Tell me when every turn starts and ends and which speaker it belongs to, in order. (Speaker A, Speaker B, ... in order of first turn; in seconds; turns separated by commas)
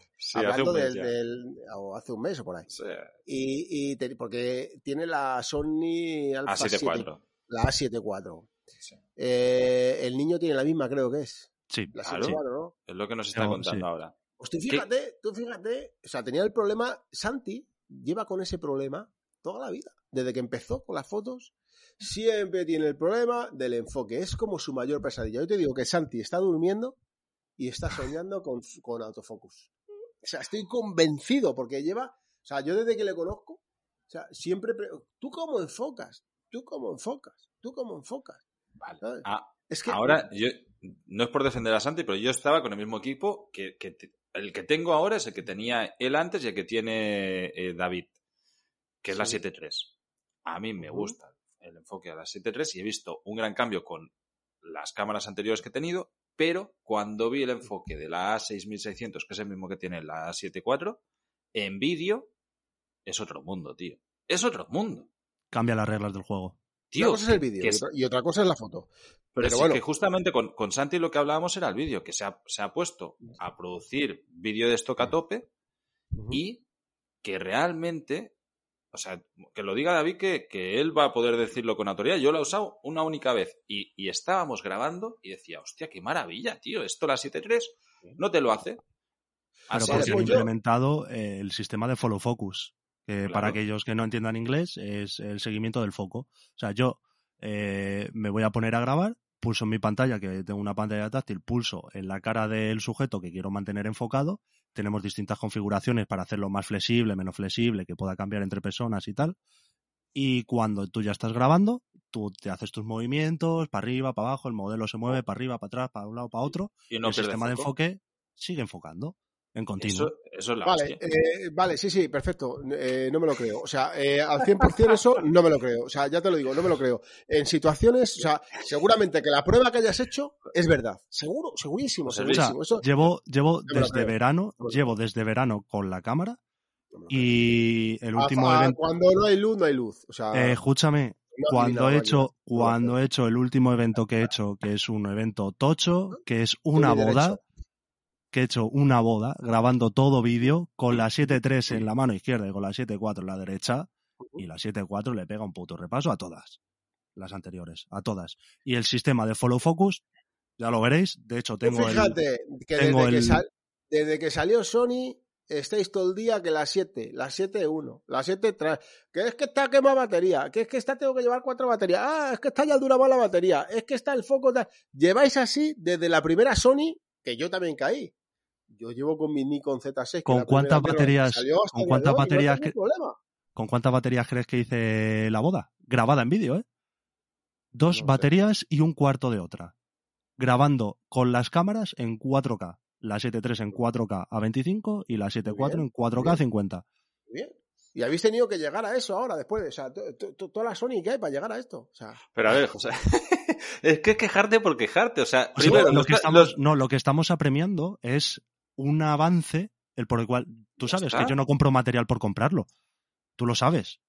Speaker A: 0.2-1.1, Speaker B: 0.3-2.7, Speaker A: 2.7-3.1, Speaker B: 3.3-8.5, Speaker A: 6.5-7.2, Speaker B: 9.2-12.7, Speaker A: 12.0-14.1, Speaker C: 13.3-13.8, Speaker B: 14.4-27.0, Speaker B: 27.6-29.7, Speaker B: 30.2-38.4, Speaker A: 38.8-48.1, Speaker B: 39.0-40.2, Speaker A: 49.0-49.9, Speaker B: 49.1-49.4, Speaker A: 50.5-54.1, Speaker B: 50.8-51.1, Speaker A: 54.6-61.0, Speaker A: 61.5-62.3, Speaker A: 63.1-65.1, Speaker C: 65.5-66.6, Speaker A: 66.9-67.8, Speaker B: 67.0-69.8, Speaker A: 69.3-75.5, Speaker B: 76.1-76.4, Speaker A: 76.3-76.6, Speaker A: 77.2-78.3, Speaker A: 78.9-88.8, Speaker A: 89.7-90.5, Speaker C: 89.7-109.4, Speaker B: 89.8-90.5, Speaker A: 93.3-93.6, Speaker C: 110.1-120.1, Speaker A: 116.9-117.7, Speaker A: 119.8-121.0, Speaker B: 120.6-132.9, Speaker A: 132.1-132.5, Speaker C: 132.3-136.4, Speaker B: 133.7-134.9, Speaker B: 136.9-137.4, Speaker C: 137.1-138.8, Speaker B: 138.2-140.6, Speaker C: 140.3-147.4, Speaker B: 141.3-142.9, Speaker B: 146.8-147.4, Speaker C: 148.3-156.6, Speaker C: 157.2-160.0, Speaker C: 160.6-162.2, Speaker B: 161.6-178.1, Speaker C: 162.8-163.4, Speaker B: 178.7-183.2, Speaker C: 180.3-182.7, Speaker C: 183.6-186.7, Speaker C: 187.7-189.7, Speaker B: 187.9-188.3, Speaker C: 190.4-196.8, Speaker B: 195.5-196.4, Speaker B: 197.3-202.2, Speaker A: 202.3-206.5, Speaker C: 205.6-212.7, Speaker B: 205.7-206.0, Speaker A: 210.8-211.3, Speaker C: 213.4-214.0